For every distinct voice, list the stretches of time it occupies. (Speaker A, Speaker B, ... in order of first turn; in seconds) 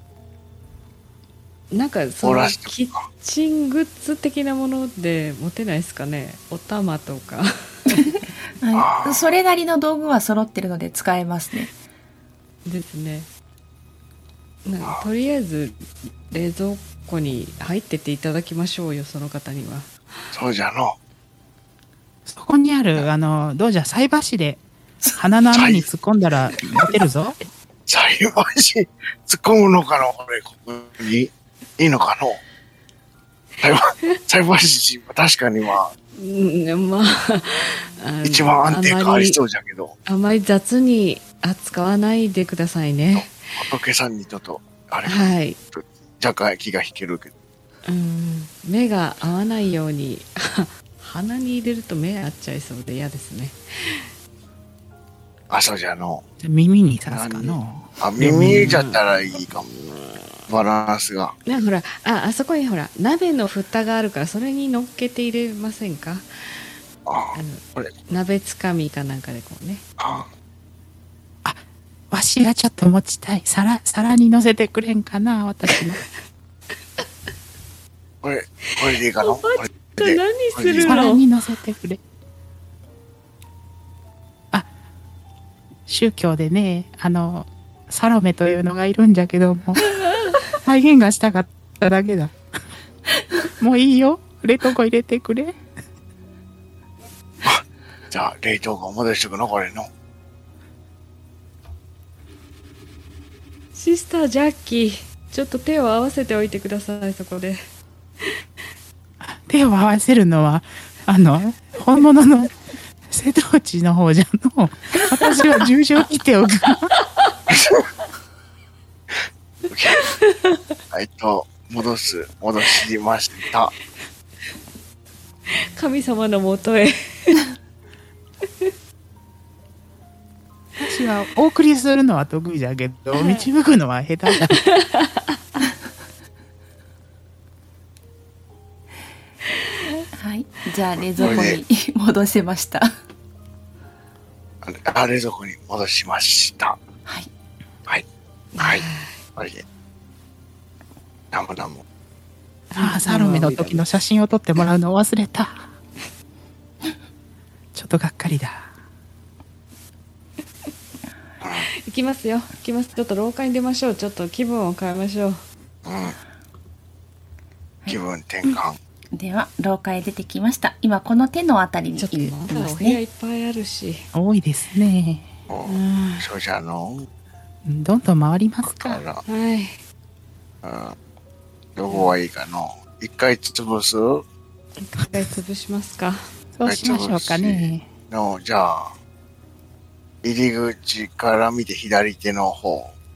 Speaker A: 1.7-8.2, 12.7-13.3, 14.7-19.9, 36.1-39.4, 40.1-43.5, 45.0-45.6, 47.9-54.1, 58.4-60.3, 61.5-66.7, 67.3-69.8, 75.7-76.1, 78.9-81.3, 90.0-90.4, 103.7-107.6, 115.0-115.7, 120.0-120.6, 125.5-127.5, 133.1-133.5, 134.3-135.4, 141.2-141.5, 148.6-149.2, 152.7-153.9, 161.6-165.4, 172.0-174.1, 175.7-176.3, 179.2-179.8, 181.9-182.2, 184.8-186.2
Speaker B: 2.2-3.0, 8.7-9.3, 20.3-21.0, 25.5-25.9, 27.9-32.4, 33.6-35.9, 38.2-40.0, 43.1-47.3, 55.5-56.2, 57.1-59.7, 60.5-61.4, 67.1-67.9, 70.0-70.3, 78.2-81.0, 97.4-99.9, 117.5-117.8, 119.7-120.0, 120.9-123.7, 141.1-141.6, 144.6-146.8, 148.6-148.8, 149.4-149.6, 151.3-151.8, 161.4-161.7, 165.8-166.2, 167.9-168.8, 175.5-177.1, 178.7-179.2, 180.6-180.9, 181.8-184.2, 186.7-188.9, 190.2-192.9
Speaker C: 7.9-11.7, 140.2-142.9, 169.1-173.0
Speaker D: 22.3-27.4, 56.4-58.8, 71.4-76.0, 80.8-82.0, 85.9-90.0, 90.5-92.3, 93.6-95.6, 109.2-112.6, 113.1-116.9, 130.8-134.6, 152.7-155.7, 157.7-158.7, 174.1-175.3, 177.7-179.0, 186.6-187.9